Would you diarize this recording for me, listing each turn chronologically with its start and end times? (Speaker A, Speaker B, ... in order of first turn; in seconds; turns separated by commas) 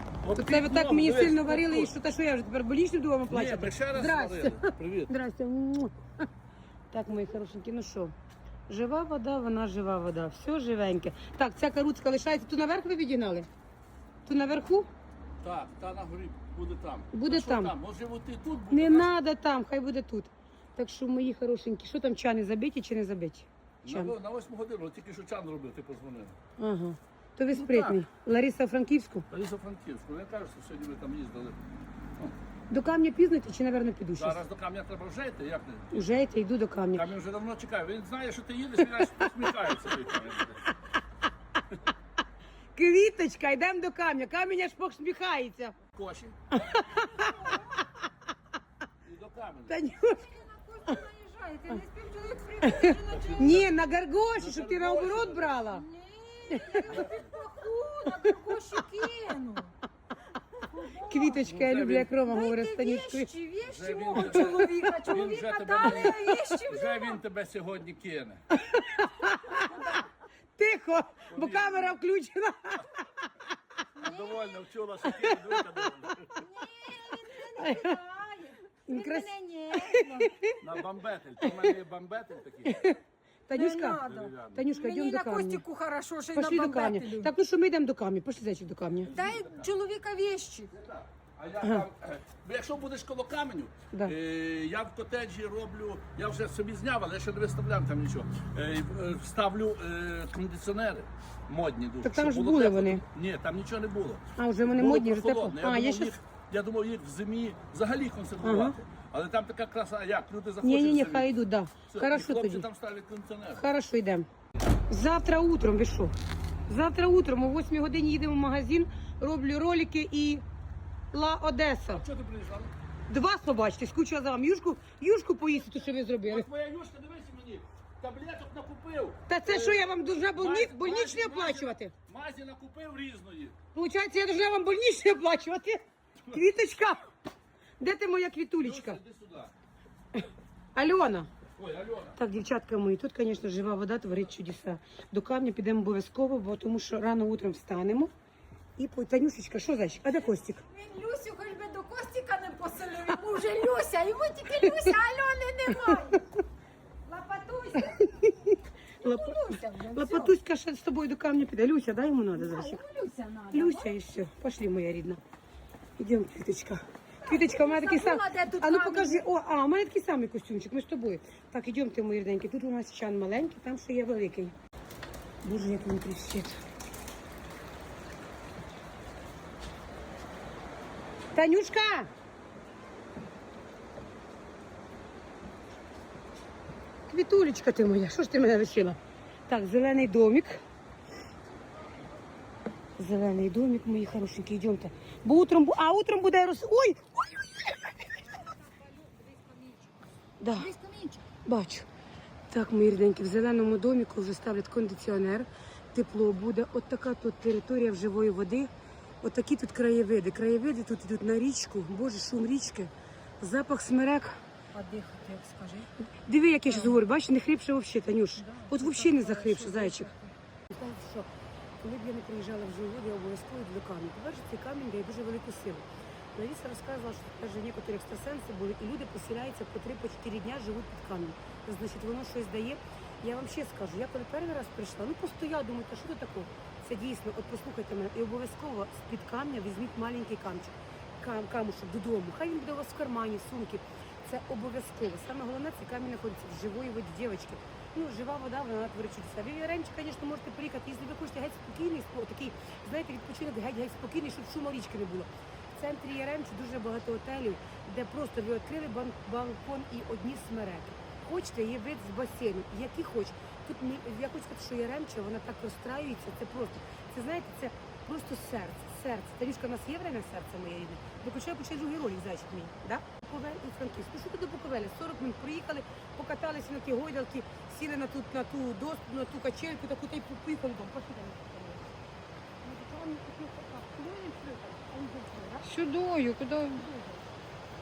Speaker A: 0.2-1.9, Speaker B: 0.3-6.0, Speaker A: 3.3-5.1, Speaker B: 6.9-8.1, Speaker B: 8.7-13.5, Speaker B: 14.2-14.9, Speaker A: 15.4-19.1, Speaker B: 17.1-17.7, Speaker B: 18.7-24.1, Speaker A: 23.8-26.4, Speaker B: 26.6-29.3, Speaker A: 27.5-28.0, Speaker A: 29.3-31.6, Speaker B: 32.7-34.4, Speaker A: 34.2-36.2, Speaker B: 35.9-37.0, Speaker A: 36.9-40.6, Speaker B: 39.0-39.8, Speaker B: 42.8-45.8, Speaker A: 46.0-46.4, Speaker B: 46.5-47.5, Speaker C: 46.8-47.9, Speaker A: 49.0-49.8, Speaker B: 49.7-50.3, Speaker C: 49.9-53.6, Speaker B: 52.6-55.9, Speaker A: 52.9-55.6, Speaker C: 55.6-59.8, Speaker B: 56.5-57.0, Speaker A: 56.9-57.3, Speaker C: 60.7-61.5, Speaker B: 61.1-63.3, Speaker A: 61.5-62.1, Speaker C: 62.2-67.2, Speaker A: 63.6-68.5, Speaker B: 64.1-64.7, Speaker B: 68.5-69.9, Speaker C: 69.6-70.0, Speaker B: 70.6-73.0, Speaker A: 71.3-72.0, Speaker A: 74.0-76.3, Speaker C: 74.0-74.6, Speaker B: 75.1-75.6, Speaker C: 76.3-80.4, Speaker B: 77.6-78.0, Speaker B: 78.9-80.5, Speaker A: 80.6-82.8, Speaker B: 82.7-83.0, Speaker B: 83.5-84.0, Speaker C: 83.5-87.3, Speaker A: 84.0-84.7, Speaker B: 84.5-85.6, Speaker B: 86.3-89.1, Speaker A: 89.1-89.7, Speaker C: 89.1-90.7, Speaker A: 90.7-111.4, Speaker B: 102.0-103.0, Speaker B: 104.4-106.2, Speaker B: 108.4-108.8, Speaker B: 110.6-112.7, Speaker A: 111.9-113.7, Speaker B: 113.5-114.3, Speaker B: 114.9-116.2, Speaker B: 116.7-120.4, Speaker B: 121.1-122.0, Speaker A: 121.9-122.7, Speaker B: 123.1-126.5, Speaker A: 126.2-133.6, Speaker B: 129.3-131.9, Speaker B: 133.7-137.0, Speaker B: 137.8-139.0, Speaker A: 138.6-139.5, Speaker B: 140.8-141.3, Speaker A: 141.6-142.2, Speaker B: 142.2-148.1, Speaker B: 148.8-150.6, Speaker C: 150.5-156.3, Speaker C: 157.1-158.3, Speaker C: 159.0-160.4, Speaker B: 159.0-162.8, Speaker C: 162.3-163.9, Speaker B: 163.5-165.2, Speaker B: 166.0-174.6, Speaker C: 167.2-169.3, Speaker B: 175.4-176.6, Speaker B: 181.3-182.1, Speaker B: 187.1-190.6, Speaker B: 193.0-198.2, Speaker C: 198.5-199.9, Speaker B: 200.4-200.7, Speaker C: 200.6-201.2, Speaker B: 201.4-201.9, Speaker B: 202.5-208.7, Speaker B: 209.2-214.4, Speaker C: 214.7-215.9, Speaker B: 216.0-220.1, Speaker C: 216.7-217.0, Speaker C: 218.4-220.3, Speaker B: 220.7-221.3, Speaker B: 221.8-281.9, Speaker B: 282.6-285.7, Speaker C: 285.6-287.0, Speaker B: 286.9-287.2